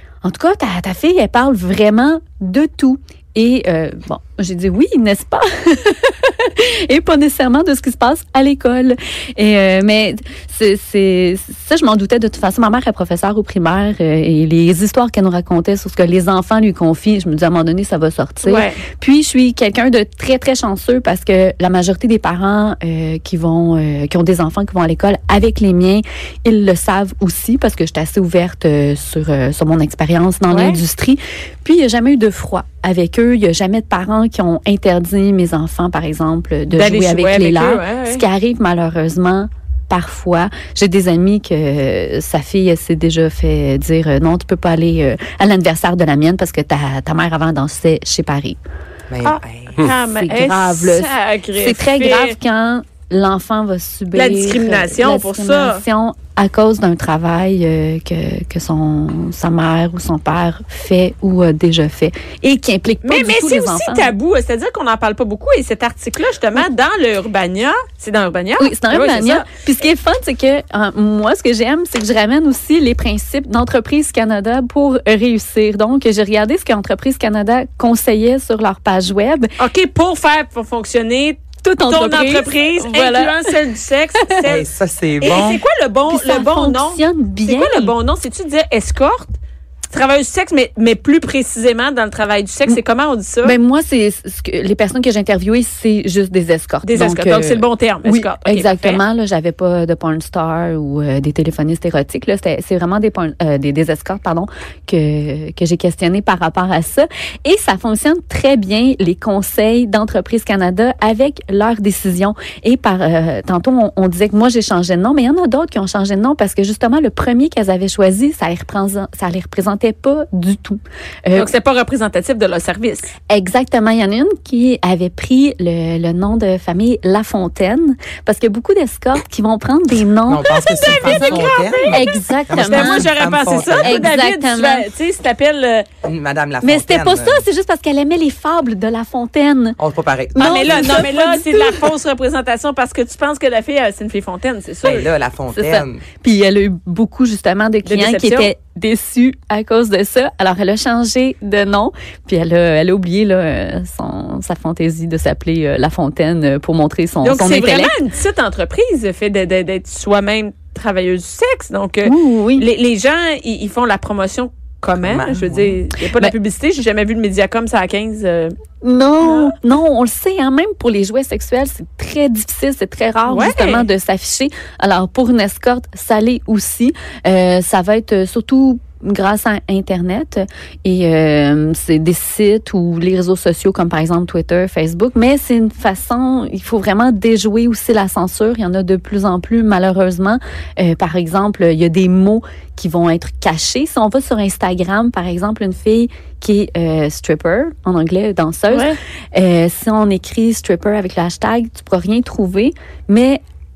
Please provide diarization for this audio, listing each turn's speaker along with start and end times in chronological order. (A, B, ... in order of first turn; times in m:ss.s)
0:00.2-0:48.6 A
0:18.4-0:18.8 B
0:30.5-0:30.8 B
0:36.7-0:38.2 B
0:49.1-0:49.9 C
0:49.2-0:52.4 B
0:50.0-1:04.1 A
0:54.1-0:55.8 B
1:03.0-1:09.4 B
1:08.6-1:19.5 A
1:19.6-1:24.7 B
1:21.6-1:23.6 A
1:24.4-1:25.6 C
1:25.2-1:29.3 B
1:26.1-1:27.9 A
1:29.9-1:33.6 B
1:33.4-2:01.5 A
1:36.8-1:39.0 B
2:01.3-2:03.1 B
2:03.3-2:13.1 A
2:10.3-2:14.1 C
2:10.4-2:15.9 B
2:13.7-2:14.9 A
2:16.0-2:17.4 C
2:16.6-2:19.8 A
2:19.8-2:21.1 C
2:20.3-2:21.9 A
2:20.4-2:25.1 B
2:24.8-2:26.0 C
2:25.5-2:37.9 A
2:27.8-2:28.5 B
2:37.2-2:48.5 B
2:42.0-2:42.6 A
2:45.0-2:45.8 C
2:48.8-3:23.4 A
2:49.2-2:49.5 B
2:53.3-2:53.9 B
3:18.7-3:19.0 B